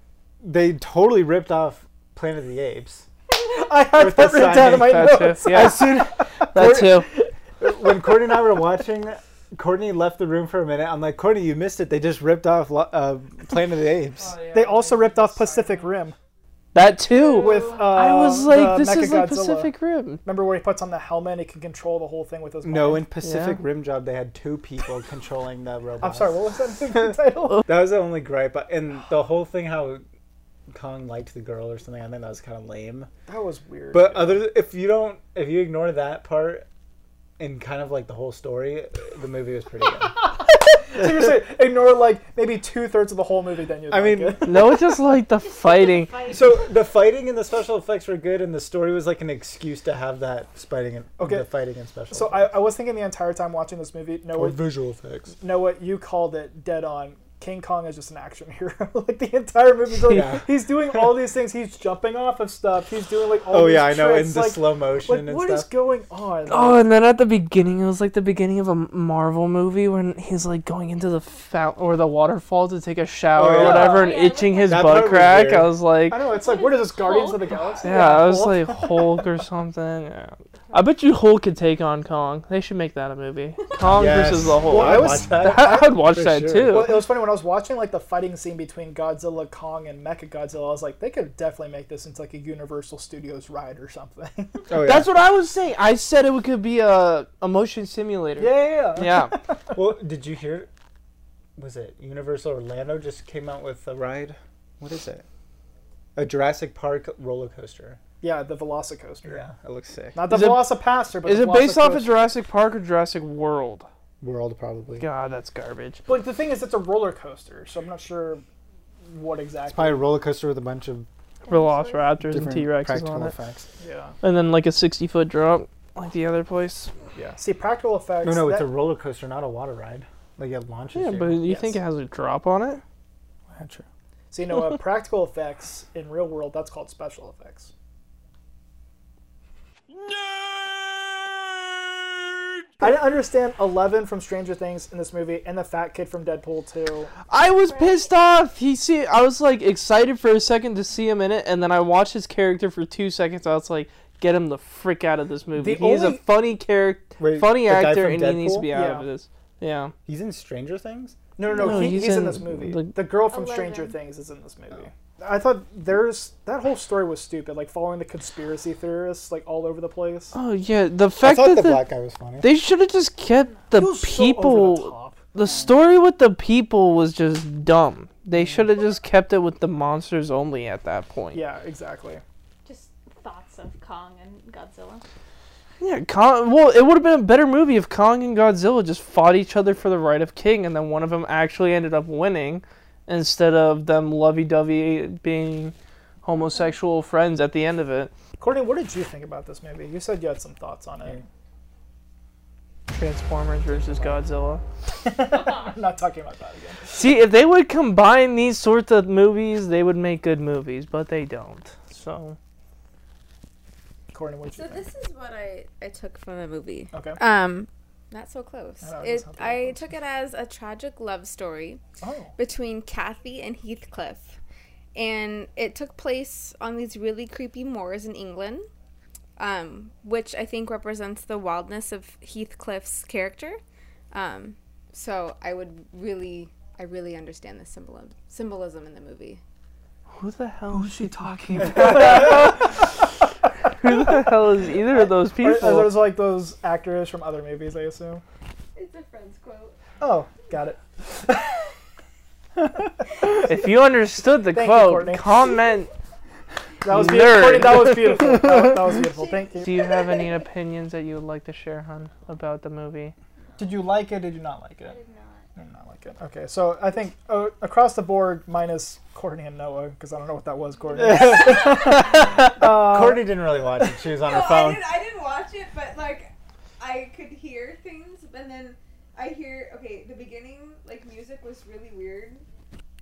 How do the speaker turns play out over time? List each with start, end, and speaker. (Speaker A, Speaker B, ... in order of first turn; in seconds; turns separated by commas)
Speaker A: 0.4-3.1, Speaker B: 3.3-8.1, Speaker A: 4.0-6.8, Speaker C: 4.3-6.0, Speaker C: 6.5-7.1, Speaker A: 7.6-14.4, Speaker C: 14.2-16.0, Speaker B: 14.5-16.1, Speaker C: 16.7-20.2, Speaker B: 17.3-19.7, Speaker D: 17.3-17.7, Speaker B: 20.2-23.1, Speaker A: 22.6-26.4, Speaker C: 23.2-23.6, Speaker B: 26.0-27.6, Speaker A: 27.6-30.0, Speaker A: 30.7-33.1, Speaker B: 33.3-34.5, Speaker A: 33.9-36.6, Speaker A: 37.4-40.3, Speaker B: 40.1-44.7, Speaker A: 43.9-44.7, Speaker C: 44.4-46.2, Speaker D: 45.4-46.8, Speaker A: 46.3-52.5, Speaker B: 51.2-51.5, Speaker B: 52.1-54.6, Speaker A: 54.4-55.3, Speaker B: 55.4-66.8, Speaker C: 60.0-60.3, Speaker A: 60.1-60.5, Speaker A: 63.5-65.7, Speaker C: 66.5-76.2, Speaker A: 73.3-75.7, Speaker D: 73.6-75.0, Speaker B: 76.1-79.2, Speaker D: 76.1-77.9, Speaker C: 77.8-87.0, Speaker A: 83.8-87.0, Speaker B: 84.7-85.9, Speaker B: 86.7-94.7, Speaker A: 94.7-95.1, Speaker C: 94.8-99.4, Speaker B: 98.4-99.8, Speaker A: 99.7-100.7, Speaker A: 101.5-105.2, Speaker A: 106.2-108.0, Speaker B: 108.2-109.5, Speaker A: 109.2-110.3, Speaker B: 110.1-112.2, Speaker C: 110.3-113.9, Speaker A: 114.2-115.0, Speaker C: 115.0-116.0, Speaker B: 116.1-118.4, Speaker B: 119.1-120.1, Speaker A: 119.7-121.1, Speaker D: 121.5-122.1, Speaker C: 121.5-123.3, Speaker A: 122.2-123.7, Speaker B: 123.8-124.1, Speaker C: 124.2-126.9, Speaker B: 127.2-128.7, Speaker A: 128.2-131.4, Speaker C: 130.9-132.8, Speaker B: 131.5-131.8, Speaker B: 133.5-137.7, Speaker A: 140.0-142.5, Speaker B: 142.8-147.1, Speaker C: 147.3-159.9, Speaker D: 147.7-148.1, Speaker B: 155.5-156.2, Speaker A: 157.2-158.7, Speaker B: 158.7-159.1, Speaker A: 160.1-161.2, Speaker B: 161.4-170.3, Speaker C: 161.5-163.0, Speaker D: 163.3-164.0, Speaker C: 170.3-171.9, Speaker A: 171.2-172.5, Speaker C: 172.4-181.4, Speaker B: 173.7-175.8, Speaker B: 178.3-178.7, Speaker B: 181.3-182.2, Speaker D: 182.6-185.0, Speaker C: 185.8-198.1, Speaker B: 198.4-201.2, Speaker C: 202.9-204.6, Speaker B: 205.0-207.0, Speaker D: 205.2-205.8, Speaker C: 206.9-212.4, Speaker B: 214.1-214.9, Speaker E: 214.5-221.8, Speaker B: 216.9-217.2, Speaker B: 218.8-219.9, Speaker B: 222.0-222.3, Speaker E: 222.4-224.4, Speaker E: 224.9-228.7, Speaker E: 229.4-233.6, Speaker E: 234.1-239.4, Speaker C: 240.2-243.2, Speaker B: 240.7-242.7, Speaker C: 243.7-246.0, Speaker B: 244.9-248.2, Speaker E: 248.8-249.8, Speaker B: 250.0-251.6, Speaker B: 252.6-253.5, Speaker C: 253.4-255.9, Speaker B: 254.5-255.3, Speaker B: 256.8-259.8, Speaker C: 256.9-258.7, Speaker C: 259.6-263.1, Speaker B: 263.6-265.0, Speaker D: 264.8-265.5, Speaker B: 265.6-273.9, Speaker A: 270.9-274.8, Speaker D: 271.1-271.4, Speaker E: 274.2-282.4